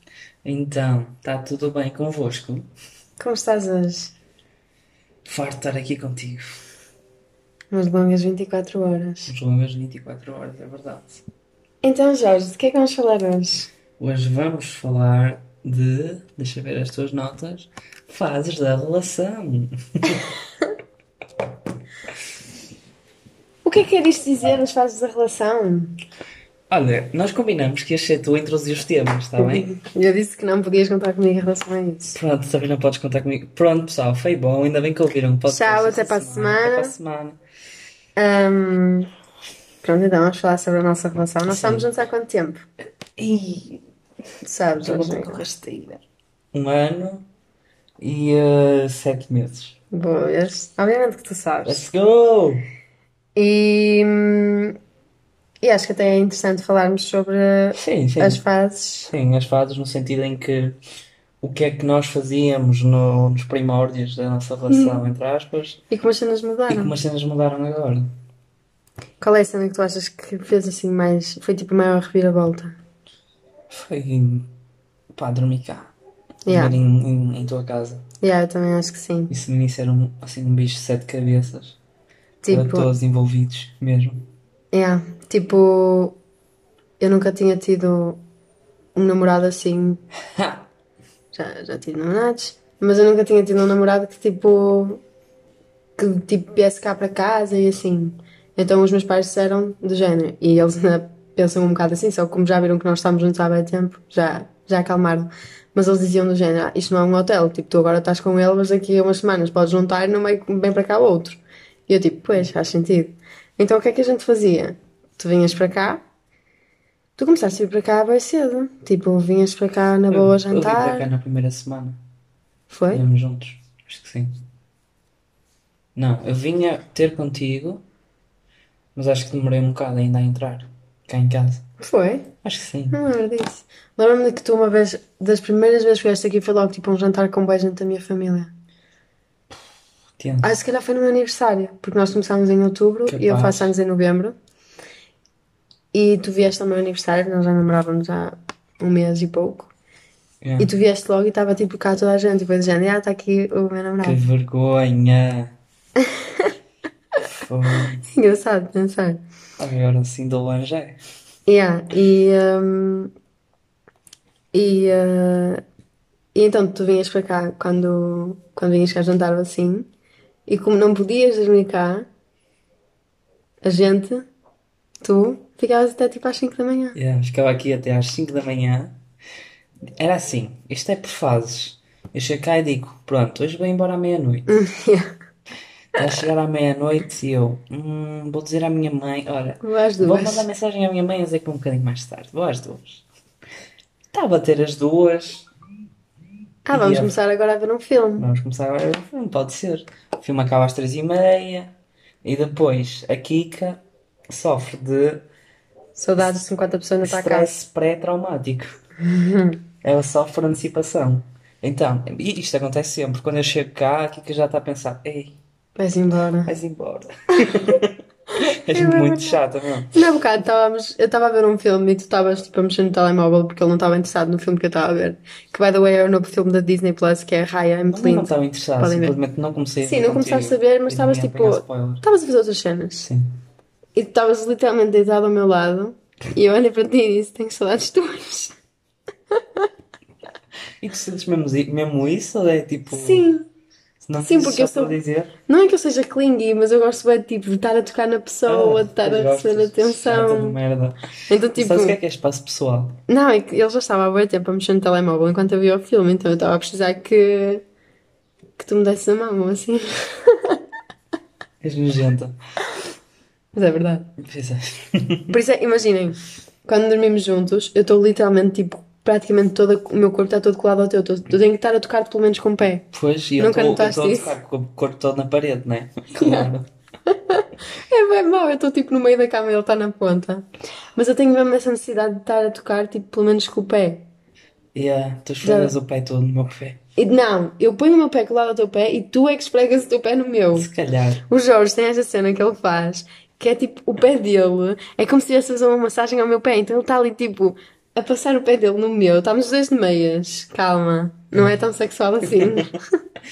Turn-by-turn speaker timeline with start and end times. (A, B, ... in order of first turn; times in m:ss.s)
0:00.4-0:02.7 A
0:03.2-0:04.1 B
0:05.2-0:06.6 A
0:07.7-0:09.3 B
0:09.3-0:11.2 A
0:11.8-0:13.7 B
0:14.0-0:20.3 A
0:23.6-0:26.0 B
0:26.7-0:29.7 A
0:29.4-0:32.2 B
0:32.1-0:37.4 A
0:35.5-0:37.0 B
0:38.2-0:39.1 B
0:39.8-0:42.6 B
0:41.5-0:41.9 A
0:43.2-0:43.8 A
0:44.4-0:45.4 B
0:44.8-0:47.3 A
0:48.0-0:49.8 A
0:49.9-0:51.9 B
0:51.6-0:52.6 A
0:53.4-0:54.8 B
0:55.6-0:59.1 B
0:57.8-0:58.4 A
0:59.1-1:00.8 A
1:01.4-1:05.8 A
1:04.7-1:05.1 B
1:05.9-1:06.9 B
1:06.7-1:08.1 A
1:09.2-1:12.8 B
1:13.7-1:14.5 A
1:15.2-1:15.9 A
1:16.5-1:16.8 B
1:16.5-1:18.0 A
1:18.2-1:19.3 B
1:19.3-1:21.8 A
1:22.4-1:22.9 B
1:22.5-1:24.3 A
1:24.7-1:26.2 B
1:27.0-1:28.2 B
1:29.0-1:30.0 B
1:30.3-1:30.7 A
1:31.3-1:35.0 B
1:36.0-1:56.0 B
1:57.2-2:01.1 B
2:00.1-2:02.0 A
2:02.7-2:03.0 B
2:02.9-2:04.4 A
2:06.0-2:07.8 A
2:09.0-2:11.7 A
2:11.8-2:12.3 B
2:12.4-2:13.0 A
2:12.9-2:18.5 B
2:20.2-2:20.5 A
2:20.4-2:24.4 B
2:23.1-2:23.7 A
2:25.9-2:29.7 B
2:30.4-2:30.7 A
2:30.6-2:34.2 B
2:34.0-2:35.5 A
2:36.0-2:36.5 B
2:37.2-2:38.1 A
2:38.1-2:39.2 B
2:39.6-2:41.0 A
2:41.5-2:43.1 B
2:44.5-2:45.6 B
2:46.3-2:49.9 B
2:50.5-2:52.1 B
2:53.6-2:54.3 B
2:55.0-2:57.0 B
2:56.9-2:58.9 A
3:00.0-3:04.6 A
3:04.5-3:05.1 B
3:06.0-3:13.0 A
3:09.6-3:10.5 B
3:14.1-3:15.5 A
3:16.7-3:18.3 B
3:16.7-3:17.1 A
3:18.2-3:21.7 A
3:22.2-3:25.2 A
3:26.0-3:27.5 B
3:27.0-3:28.8 A
3:29.0-3:29.6 B
3:29.8-3:35.4 A
3:35.8-3:36.5 B
3:36.4-3:40.0 A
3:37.4-3:37.8 B
3:38.4-3:39.4 B
3:39.9-3:49.2 B
3:47.9-3:52.0 A
3:49.8-3:53.1 B
3:53.0-3:53.3 A
3:54.0-3:58.5 B
3:59.4-3:59.7 B
4:00.8-4:03.3 A
4:02.9-4:03.5 B
4:04.0-4:05.3 A
4:04.2-4:10.6 B
4:08.5-4:11.0 A
4:11.3-4:12.0 B
4:11.6-4:13.0 A
4:13.1-4:17.6 B
4:18.6-4:20.6 B
4:21.6-4:22.4 A
4:23.6-4:24.1 B
4:24.2-4:25.4 A
4:25.3-4:32.9 B
4:32.9-4:36.7 A
4:33.4-4:34.3 B
4:36.2-4:36.5 B
4:37.1-4:44.0 B
4:44.7-4:46.8 A
4:45.4-4:45.8 B
4:47.0-4:50.7 B
4:50.6-4:51.2 A
4:51.3-5:02.9 B